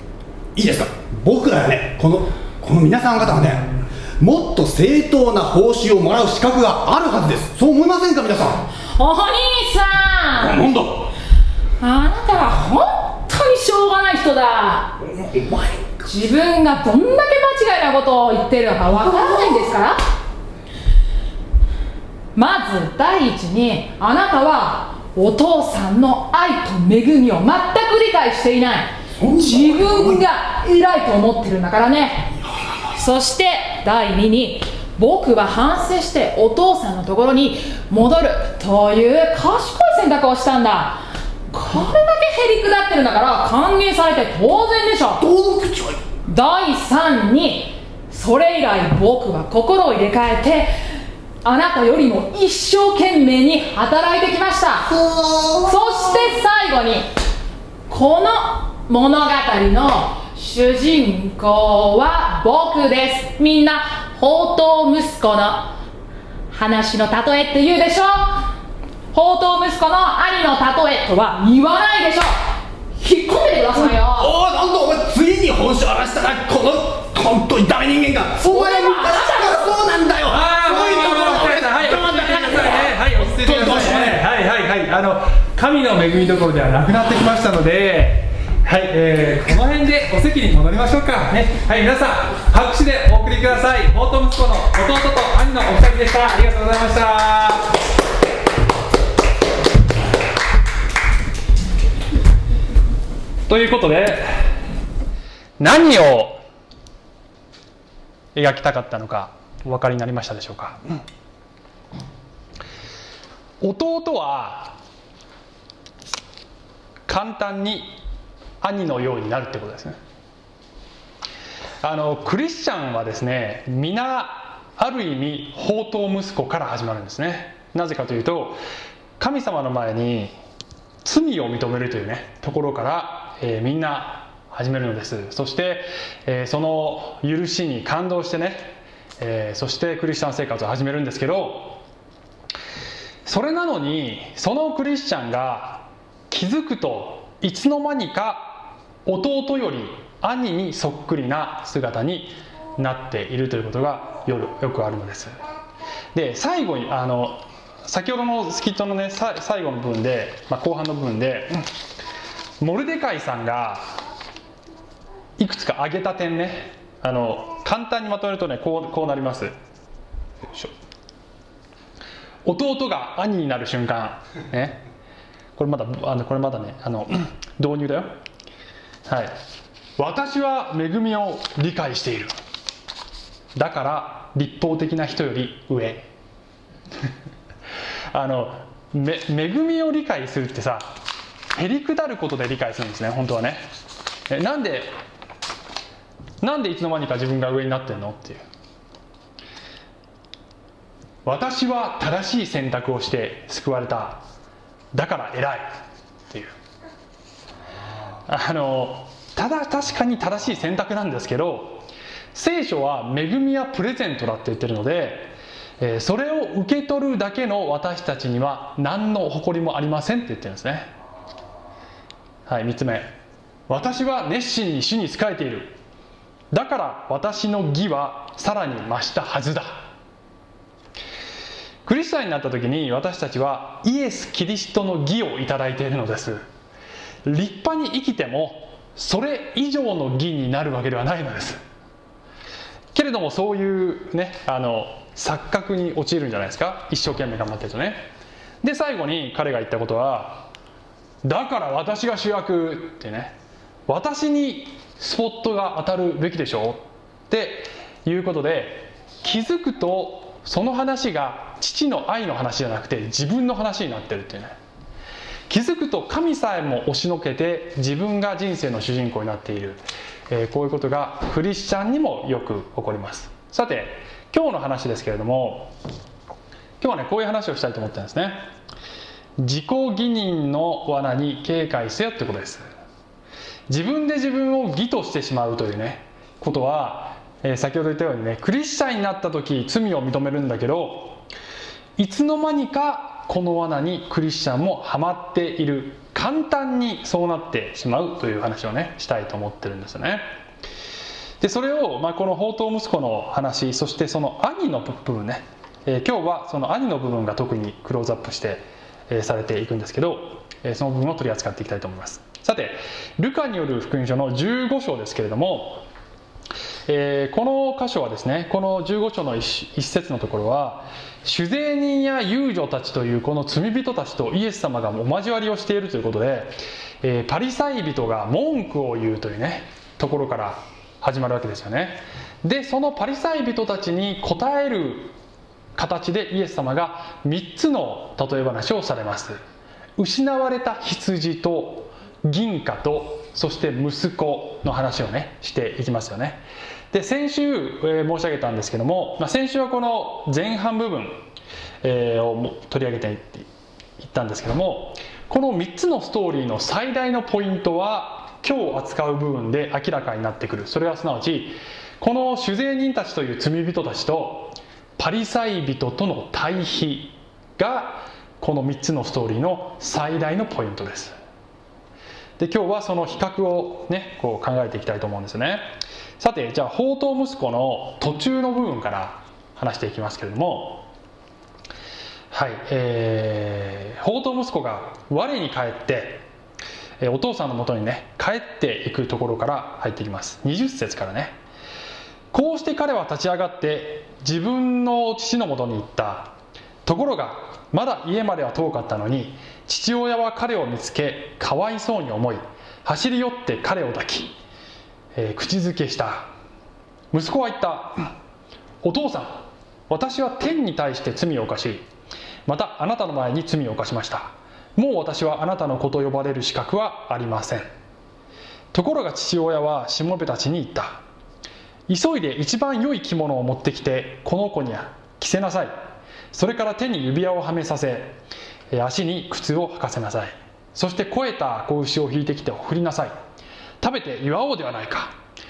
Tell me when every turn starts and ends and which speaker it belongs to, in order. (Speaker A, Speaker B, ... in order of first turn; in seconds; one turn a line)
Speaker A: 0.6-8.7
Speaker B: 8.9-10.6
Speaker A: 10.4-11.1
Speaker B: 11.8-14.9
Speaker A: 15.0-16.1
Speaker B: 16.1-20.0
Speaker A: 19.0-19.5
Speaker B: 22.3-32.3
Speaker A: 29.2-30.2
Speaker A: 32.5-32.9
Speaker B: 32.9-45.2
Speaker A: 45.2-46.0
Speaker B: 46.3-50.7
Speaker B: 51.4-54.9
Speaker A: 54.9-55.8
Speaker B: 55.6-57.1
Speaker B: 57.9-65.7
Speaker B: 66.5-68.5
Speaker B: 69.1-72.3
Speaker B: 73.0-74.3
Speaker A: 73.8-84.2
Speaker B: 78.4-79.8
Speaker C: 80.3-97.7
Speaker C: 103.5-104.6
Speaker C: 105.6-106.4
Speaker C: 108.3-111.0
Speaker C: 113.6-114.8
Speaker C: 117.1-117.9
Speaker C: 118.6-120.0
Speaker C: 121.8-128.6
Speaker C: 129.2-130.3
Speaker C: 131.0-141.8
Speaker C: 143.2-155.4
Speaker C: 156.1-161.7
Speaker C: 162.6-163.9
Speaker C: 165.4-169.5
Speaker C: 172.4-174.8
Speaker C: 175.6-178.1
Speaker C: 179.1-179.3
Speaker C: 180.0-182.3
Speaker C: 183.6-186.1
Speaker C: 188.1-190.9
Speaker C: 191.5-193.7
Speaker C: 194.3-194.9
Speaker C: 196.4-198.4
Speaker C: 201.2-204.2
Speaker C: 204.9-205.8
Speaker C: 206.3-206.6
Speaker C: 208.2-220.9
Speaker C: 222.4-223.1
Speaker C: 223.7-225.8
Speaker C: 226.5-229.8
Speaker C: 231.8-236.4
Speaker C: 237.2-241.6
Speaker C: 242.9-248.1
Speaker C: 248.6-250.5
Speaker C: 251.2-253.3
Speaker C: 253.9-264.5
Speaker C: 265.5-275.7
Speaker C: 276.8-278.4
Speaker C: 279.4-282.7
Speaker C: 283.7-291.2
Speaker C: 292.0-300.2
Speaker C: 301.4-315.8
Speaker C: 316.9-335.1
Speaker C: 335.8-339.4
Speaker C: 340.0-351.2
Speaker C: 351.8-353.5
Speaker C: 354.0-371.1
Speaker C: 372.4-380.9
Speaker C: 382.3-386.3
Speaker C: 387.0-391.4
Speaker C: 392.3-396.3
Speaker C: 396.8-404.3
Speaker C: 405.1-406.3
Speaker C: 407.1-408.1
Speaker C: 408.8-411.9
Speaker C: 412.5-417.7
Speaker C: 418.7-421.0
Speaker C: 421.9-425.7
Speaker C: 426.3-428.2
Speaker C: 428.7-433.1
Speaker C: 433.8-435.1